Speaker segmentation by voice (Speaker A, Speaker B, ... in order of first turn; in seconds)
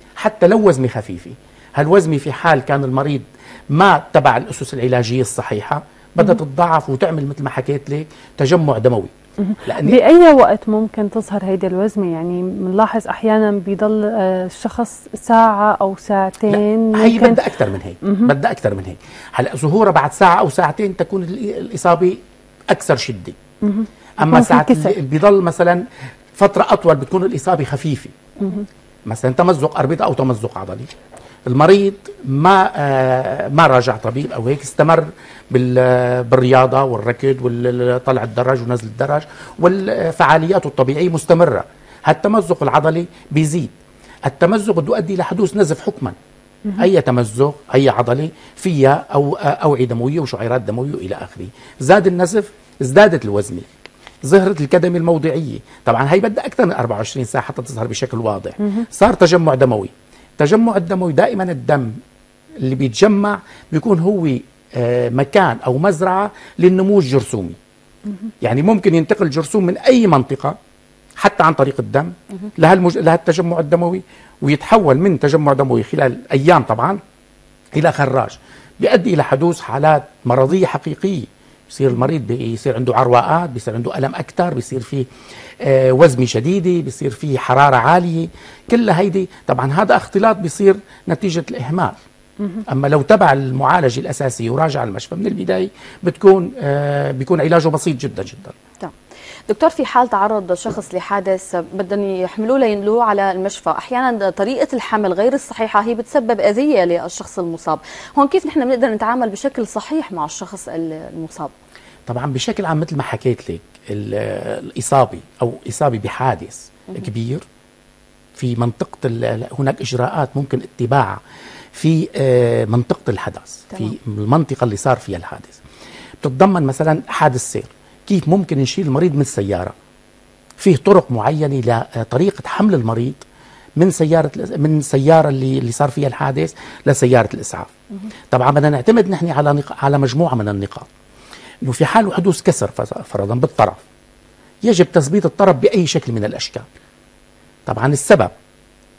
Speaker A: 0.2-9.1, 9.7-10.0, 16.5-23.4, 24.2-25.8, 26.4-28.1, 29.1-30.9, 31.5-43.7, 44.3-46.2, 46.8-53.7, 54.2-61.9, 62.6-67.6, 68.4-70.6, 71.2-77.0, 77.7-85.1, 85.6-92.0, 92.7-98.5, 112.1-117.5, 118.3-121.2, 121.7-125.6, 126.2-129.7, 130.6-133.2, 133.8-137.7, 138.3-140.9, 141.6-143.8, 144.6-146.7, 147.7-148.3
Speaker B: 9.4-17.4, 18.0-18.3, 23.6-24.9, 28.4-28.7
Speaker C: 99.5-111.5